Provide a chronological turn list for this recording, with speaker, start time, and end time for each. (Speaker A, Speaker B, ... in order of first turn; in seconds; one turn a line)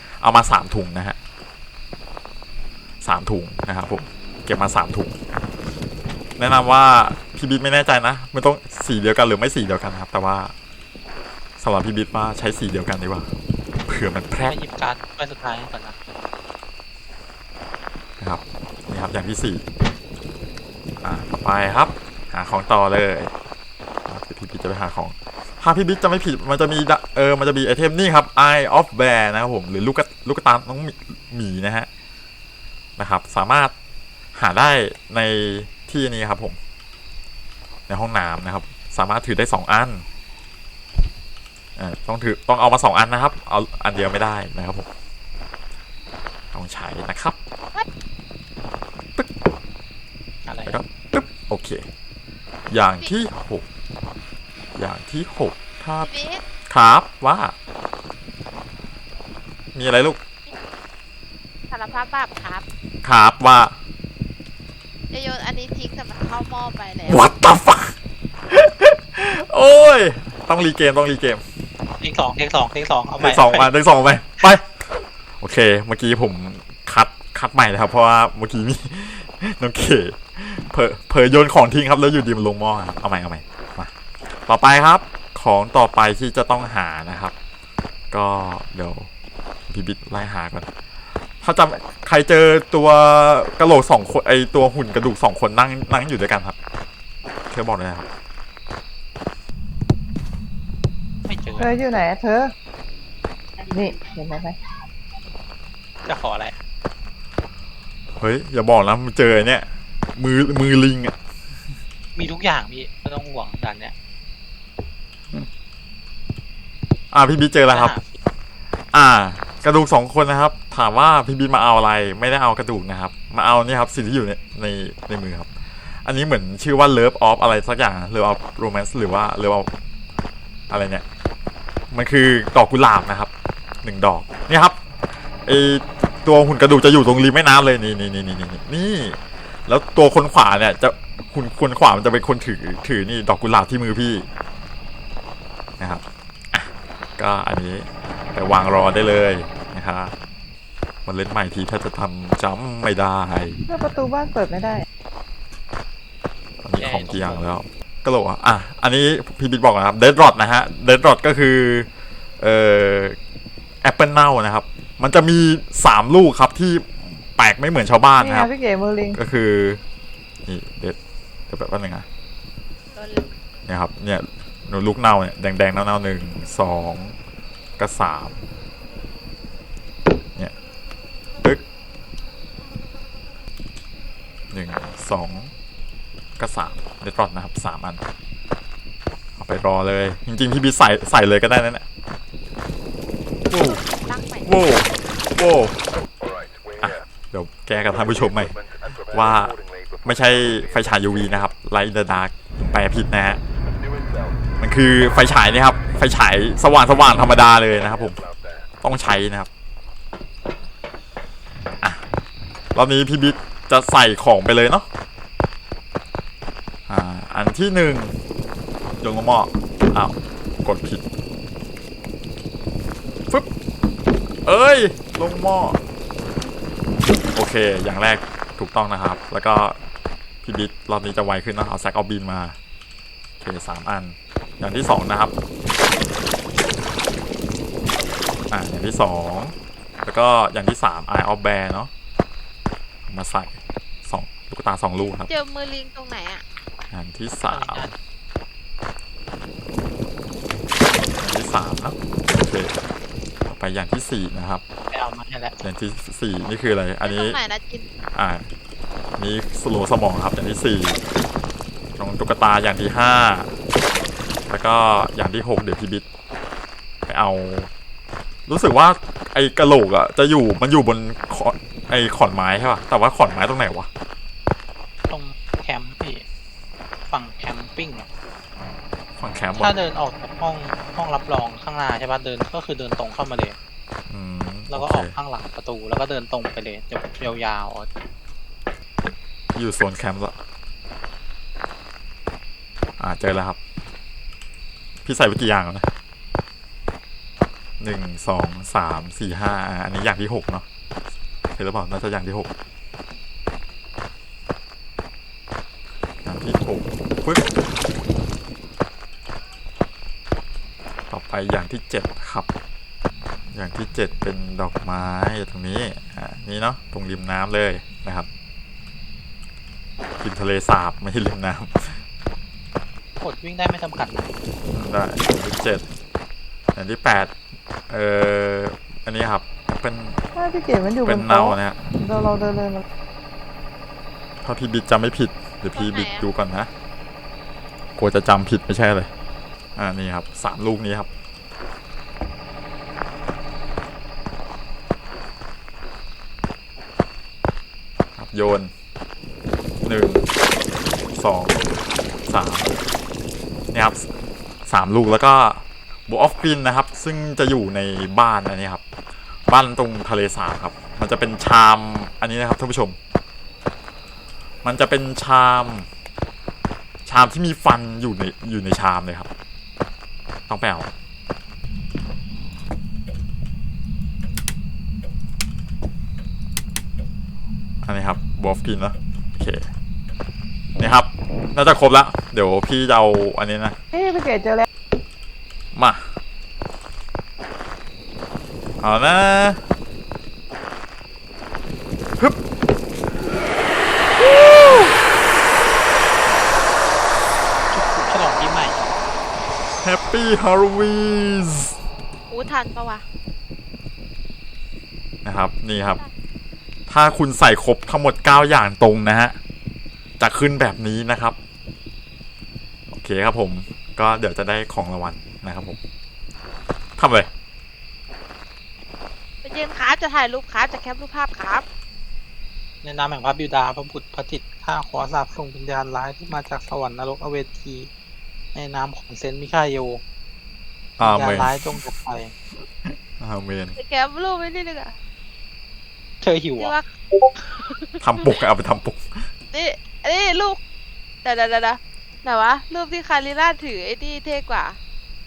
Speaker A: 0.2-1.2
Speaker A: 3.0-5.2
Speaker A: 6.4-10.5
Speaker A: 11.6-13.3
Speaker A: 13.9-14.6
Speaker B: 14.4-16.0
Speaker A: 18.2-19.7
Speaker A: 21.0-23.3
Speaker A: 24.1-31.9
Speaker A: 33.0-33.7
Speaker A: 34.4-36.6
Speaker A: 37.9-40.0
Speaker A: 41.8-44.9
Speaker A: 46.5-47.4
Speaker B: 50.5-50.8
Speaker A: 50.7-51.9
Speaker A: 52.7-53.6
Speaker A: 54.8-56.1
Speaker C: 56.0-56.4
Speaker A: 56.7-57.5
Speaker A: 59.8-60.2
Speaker C: 61.7-62.6
Speaker A: 63.0-63.8
Speaker C: 65.1-67.3
Speaker A: 67.1-68.0
Speaker A: 68.5-71.4
Speaker B: 72.0-73.7
Speaker A: 73.2-74.7
Speaker A: 75.4-87.3
Speaker A: 88.1-89.1
Speaker A: 89.7-90.7
Speaker A: 91.4-96.6
Speaker A: 97.5-98.1
Speaker B: 101.2-102.0
Speaker D: 101.6-102.5
Speaker D: 103.6-104.6
Speaker B: 106.0-106.5
Speaker A: 108.2-111.2
Speaker B: 112.2-114.0
Speaker A: 117.1-118.0
Speaker B: 117.7-118.2
Speaker A: 118.9-125.5
Speaker A: 126.0-129.7
Speaker A: 130.7-131.1
Speaker A: 131.9-133.3
Speaker A: 133.8-134.8
Speaker A: 135.5-144.3
Speaker A: 145.8-150.1
Speaker A: 151.1-153.6
Speaker D: 153.7-154.9
Speaker A: 156.6-163.2
Speaker B: 156.8-157.5
Speaker A: 163.8-168.5
Speaker D: 168.2-169.2
Speaker A: 169.1-169.8
Speaker A: 170.4-171.0
Speaker A: 171.5-172.1
Speaker C: 173.0-173.3
Speaker A: 173.7-177.2
Speaker A: 177.8-178.4
Speaker A: 184.5-185.5
Speaker A: 186.4-188.0
Speaker A: 189.4-191.9
Speaker A: 193.5-193.8
Speaker C: 193.6-194.5
Speaker A: 194.4-195.8
Speaker A: 196.8-203.4
Speaker A: 204.6-208.2
Speaker A: 208.8-209.5
Speaker A: 212.8-214.9
Speaker A: 216.9-218.2
Speaker A: 219.0-221.0
Speaker A: 224.4-225.8
Speaker A: 227.3-229.8
Speaker A: 230.4-232.6
Speaker A: 233.4-235.3
Speaker A: 238.5-241.9
Speaker A: 243.1-245.3
Speaker C: 245.0-246.4
Speaker A: 246.9-247.9
Speaker B: 247.4-247.9
Speaker A: 251.2-252.8
Speaker A: 253.4-254.6
Speaker B: 254.9-255.6
Speaker A: 255.6-257.4
Speaker C: 257.0-257.9
Speaker A: 258.1-258.5
Speaker A: 259.2-261.0
Speaker A: 262.0-263.5
Speaker A: 264.5-266.1
Speaker A: 267.1-267.7
Speaker A: 268.5-273.9
Speaker B: 275.1-276.2
Speaker B: 277.1-278.1
Speaker A: 279.2-279.8
Speaker B: 279.6-283.6
Speaker A: 284.1-285.1
Speaker B: 284.7-287.9
Speaker A: 289.6-290.4
Speaker A: 293.0-293.6
Speaker A: 295.1-295.9
Speaker A: 297.8-300.6
Speaker A: 301.5-302.5
Speaker A: 306.2-307.5
Speaker A: 311.1-312.5
Speaker A: 313.5-318.3
Speaker A: 320.2-322.0
Speaker B: 323.2-324.3
Speaker A: 324.7-325.9
Speaker A: 326.8-327.3
Speaker A: 327.9-330.2
Speaker D: 330.4-332.9
Speaker A: 331.0-331.9
Speaker A: 334.4-336.7
Speaker C: 335.7-336.3
Speaker A: 338.0-339.1
Speaker A: 339.8-341.1
Speaker A: 348.2-348.7
Speaker A: 349.8-350.3
Speaker A: 351.1-351.6
Speaker A: 352.3-352.7
Speaker A: 353.7-354.1
Speaker A: 354.7-358.8
Speaker A: 359.5-363.0
Speaker A: 364.6-365.9
Speaker A: 367.1-369.3
Speaker A: 370.5-370.9
Speaker A: 377.8-379.7
Speaker A: 380.8-383.8
Speaker D: 383.9-384.7
Speaker A: 385.7-386.1
Speaker A: 388.8-389.6
Speaker A: 394.2-394.9
Speaker B: 397.7-399.0
Speaker A: 399.8-401.8
Speaker C: 402.3-403.0
Speaker A: 405.2-406.0
Speaker C: 405.7-406.1
Speaker A: 406.9-409.4
Speaker A: 410.2-411.4
Speaker A: 412.9-415.8
Speaker A: 417.0-417.3
Speaker C: 419.4-421.6
Speaker B: 422.8-427.9
Speaker B: 428.5-430.0
Speaker A: 431.0-431.8
Speaker B: 431.0-432.3
Speaker A: 432.9-433.8
Speaker C: 433.8-434.9
Speaker B: 436.2-436.8
Speaker C: 436.6-438.3
Speaker A: 438.0-439.3
Speaker C: 439.5-440.6
Speaker C: 441.2-444.8